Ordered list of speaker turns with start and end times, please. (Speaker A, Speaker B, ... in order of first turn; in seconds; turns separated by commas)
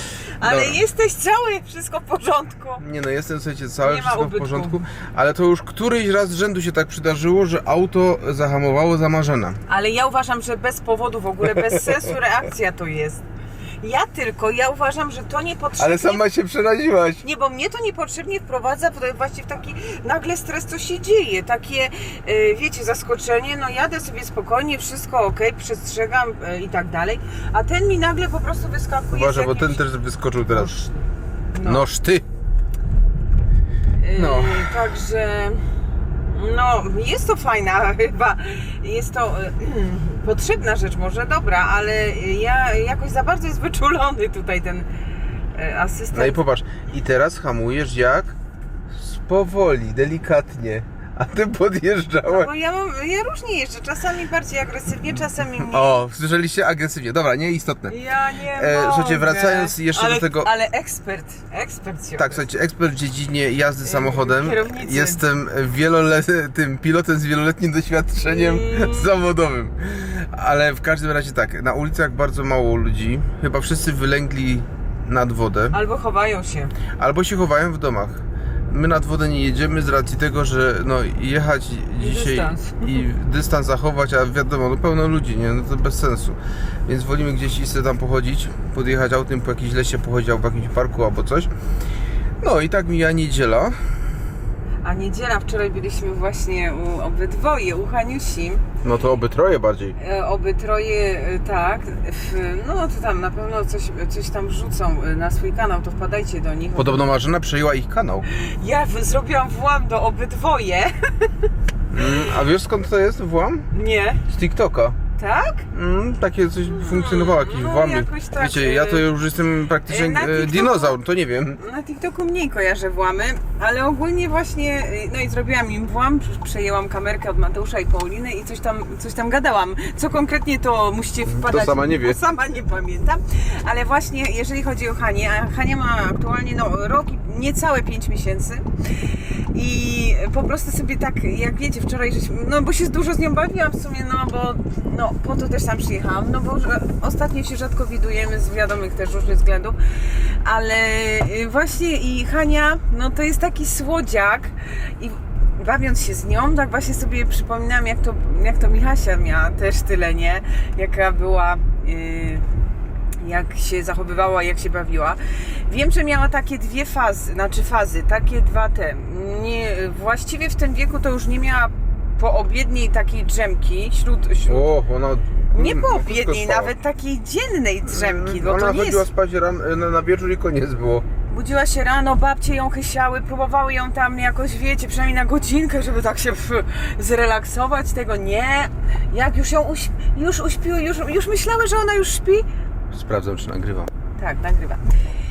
Speaker A: 0.4-2.8, Speaker B: 0.4-0.8, Speaker B: 2.8-9.6, Speaker A: 3.8-4.8, Speaker A: 9.7-13.2, Speaker A: 13.8-16.2, Speaker B: 15.8-17.2, Speaker A: 17.2-29.8, Speaker B: 29.1-30.7, Speaker A: 30.5-31.0, Speaker A: 31.5-31.9, Speaker B: 31.6-32.2, Speaker A: 34.0-35.6, Speaker B: 34.1-34.8, Speaker A: 36.2-44.9, Speaker A: 45.5-46.4, Speaker B: 46.1-48.4, Speaker B: 48.9-52.5, Speaker A: 52.3-55.9, Speaker B: 55.6-58.0, Speaker A: 57.9-62.4, Speaker B: 58.5-60.5, Speaker B: 62.2-75.8, Speaker A: 63.8-65.2, Speaker A: 68.3-69.1, Speaker A: 75.7-76.8, Speaker B: 77.0-91.5, Speaker A: 82.0-83.0, Speaker B: 92.4-93.8, Speaker A: 94.8-98.6, Speaker B: 98.8-100.0, Speaker A: 100.0-107.0, Speaker B: 106.8-108.3, Speaker A: 108.3-111.5, Speaker B: 111.9-113.7, Speaker A: 113.7-114.2, Speaker B: 114.3-115.0, Speaker A: 115.2-115.7, Speaker B: 115.7-121.6, Speaker A: 116.8-119.1, Speaker A: 119.9-121.0, Speaker A: 121.6-162.5, Speaker B: 131.3-132.2, Speaker A: 163.2-174.7, Speaker B: 174.5-176.7, Speaker A: 175.5-179.1, Speaker B: 177.8-181.1, Speaker A: 181.3-192.5, Speaker B: 192.9-193.9, Speaker A: 194.2-195.0